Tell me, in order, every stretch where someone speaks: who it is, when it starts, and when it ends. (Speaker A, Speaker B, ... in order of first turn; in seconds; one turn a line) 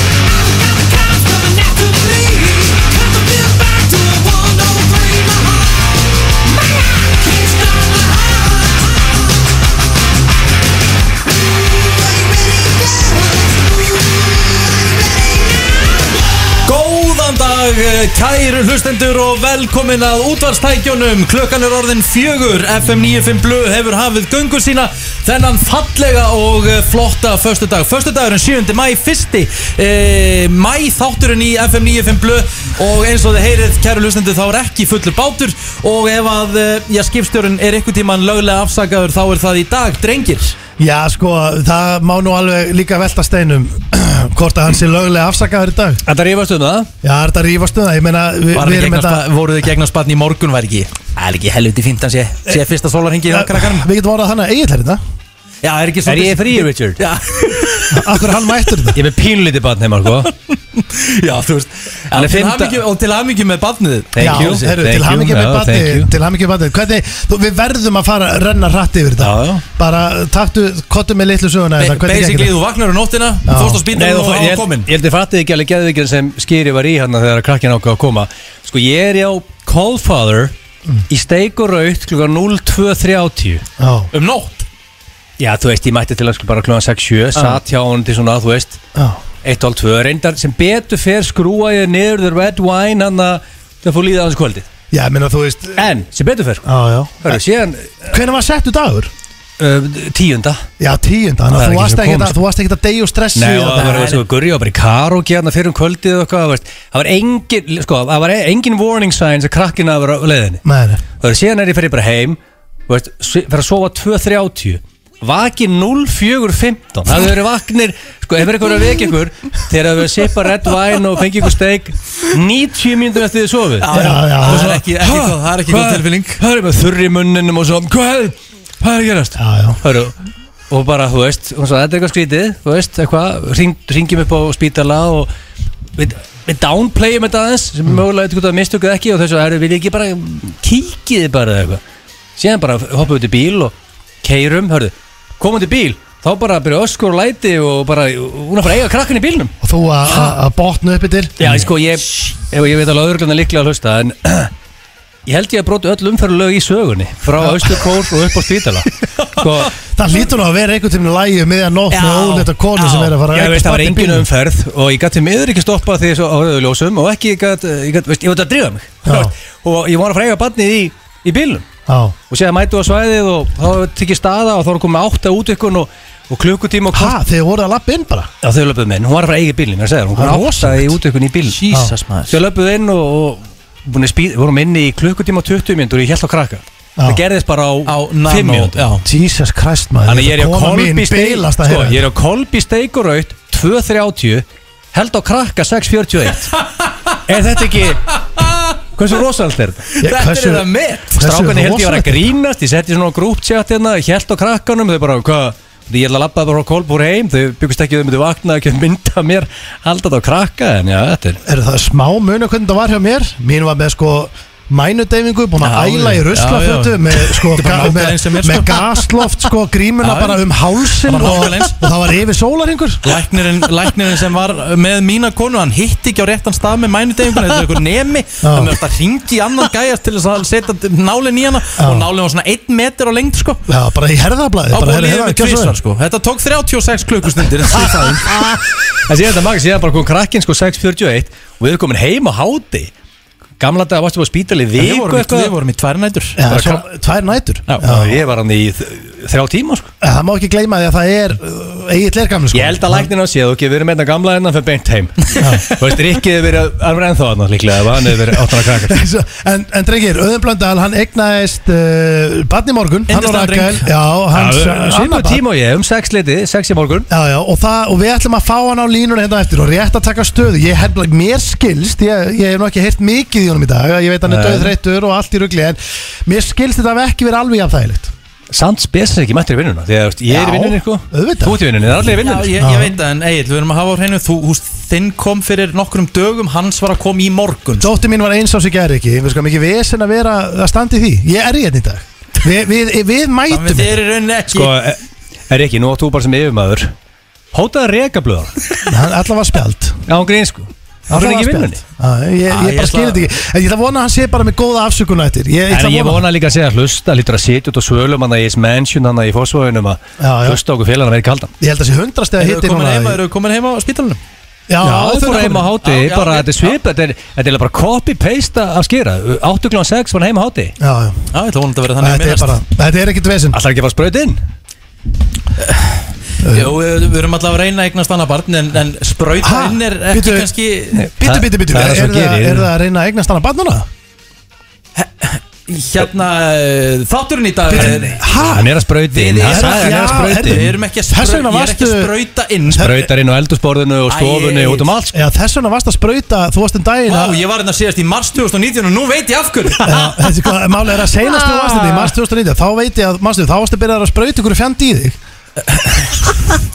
Speaker A: 0.8-5.9
Speaker A: 6.4-8.9
Speaker A: 11.8-13.6
Speaker A: 16.6-40.6
Speaker B: 40.8-46.0
Speaker C: 46.0-46.9
Speaker B: 47.0-49.2
Speaker A: 48.5-53.9
Speaker B: 53.3-55.0
Speaker A: 55.6-58.2
Speaker C: 56.0-57.0
Speaker B: 57.9-59.0
Speaker C: 58.9-60.3
Speaker A: 60.8-64.6
Speaker C: 62.1-62.8
Speaker C: 64.1-66.1
Speaker B: 64.2-72.5
Speaker C: 69.2-69.6
Speaker A: 71.8-74.9
Speaker B: 73.5-73.8
Speaker C: 73.9-80.5
Speaker C: 81.1-83.6
Speaker B: 83.8-84.1
Speaker A: 84.1-84.7
Speaker C: 85.4-88.8
Speaker B: 88.9-89.2
Speaker C: 89.4-94.7
Speaker B: 94.9-95.9
Speaker C: 95.8-96.7
Speaker B: 96.6-97.4
Speaker C: 97.2-98.1
Speaker B: 98.1-99.1
Speaker C: 99.6-100.6
Speaker B: 100.8-104.0
Speaker C: 101.5-102.3
Speaker C: 103.3-110.6
Speaker A: 103.8-104.2
Speaker B: 110.6-111.0
Speaker C: 111.2-123.9
Speaker A: 123.8-126.4
Speaker B: 123.9-124.9
Speaker C: 124.5-130.1
Speaker B: 129.3-129.8
Speaker C: 130.7-135.3
Speaker C: 136.0-141.8
Speaker C: 142.4-149.5
Speaker B: 149.6-151.7
Speaker C: 151.4-154.5
Speaker C: 155.2-159.7
Speaker B: 159.9-164.3
Speaker A: 161.9-163.2
Speaker C: 163.3-171.7
Speaker B: 169.0-169.3
Speaker B: 171.8-172.2
Speaker C: 172.3-177.2
Speaker B: 176.9-178.3
Speaker C: 178.4-181.6
Speaker B: 180.1-181.0
Speaker A: 181.5-182.3
Speaker C: 182.3-188.9
Speaker B: 187.0-187.2
Speaker A: 187.8-189.0
Speaker B: 189.0-192.0
Speaker C: 190.1-196.5
Speaker C: 197.2-198.2
Speaker A: 198.1-198.7
Speaker C: 198.9-199.9
Speaker A: 199.9-201.1
Speaker B: 200.0-202.3
Speaker C: 201.2-211.4
Speaker B: 211.4-223.2
Speaker A: 215.6-218.9
Speaker A: 220.0-220.4
Speaker A: 221.0-221.8
Speaker A: 223.0-233.6
Speaker B: 228.4-228.8
Speaker B: 231.8-232.1
Speaker B: 233.7-235.8
Speaker A: 234.7-238.4
Speaker C: 238.2-242.9
Speaker C: 243.6-245.5
Speaker A: 244.8-246.4
Speaker B: 246.4-248.2
Speaker C: 246.5-246.8
Speaker C: 247.8-249.9
Speaker B: 250.0-253.1
Speaker C: 252.5-259.0
Speaker B: 255.4-255.6
Speaker B: 258.3-265.4
Speaker A: 263.1-263.9
Speaker C: 264.3-267.1
Speaker B: 267.1-278.1
Speaker C: 274.2-274.7
Speaker C: 278.5-282.5
Speaker B: 280.3-281.6
Speaker A: 282.2-287.9
Speaker B: 282.6-282.9
Speaker B: 287.8-294.0
Speaker A: 293.5-294.7
Speaker C: 294.5-296.9
Speaker C: 297.5-298.6
Speaker B: 298.8-300.0
Speaker C: 300.1-301.8
Speaker B: 301.1-306.3
Speaker A: 302.5-303.2
Speaker C: 305.7-311.5
Speaker B: 310.2-310.6
Speaker B: 311.6-313.2
Speaker A: 312.4-314.2
Speaker B: 314.7-315.6
Speaker C: 314.8-320.7
Speaker A: 315.8-316.8
Speaker B: 320.8-321.2
Speaker A: 321.3-322.6
Speaker B: 322.0-323.6
Speaker C: 323.5-324.4
Speaker A: 325.6-331.1
Speaker B: 326.4-326.7
Speaker B: 329.4-330.5
Speaker C: 330.9-332.7
Speaker B: 331.1-333.9
Speaker A: 334.9-338.3
Speaker B: 337.7-338.7
Speaker C: 337.8-340.7
Speaker A: 339.1-343.1
Speaker B: 339.4-342.1
Speaker C: 342.7-345.2
Speaker A: 344.1-344.9
Speaker B: 345.1-347.4
Speaker A: 347.1-350.1
Speaker B: 349.8-355.2
Speaker A: 351.4-352.0
Speaker A: 355.6-356.3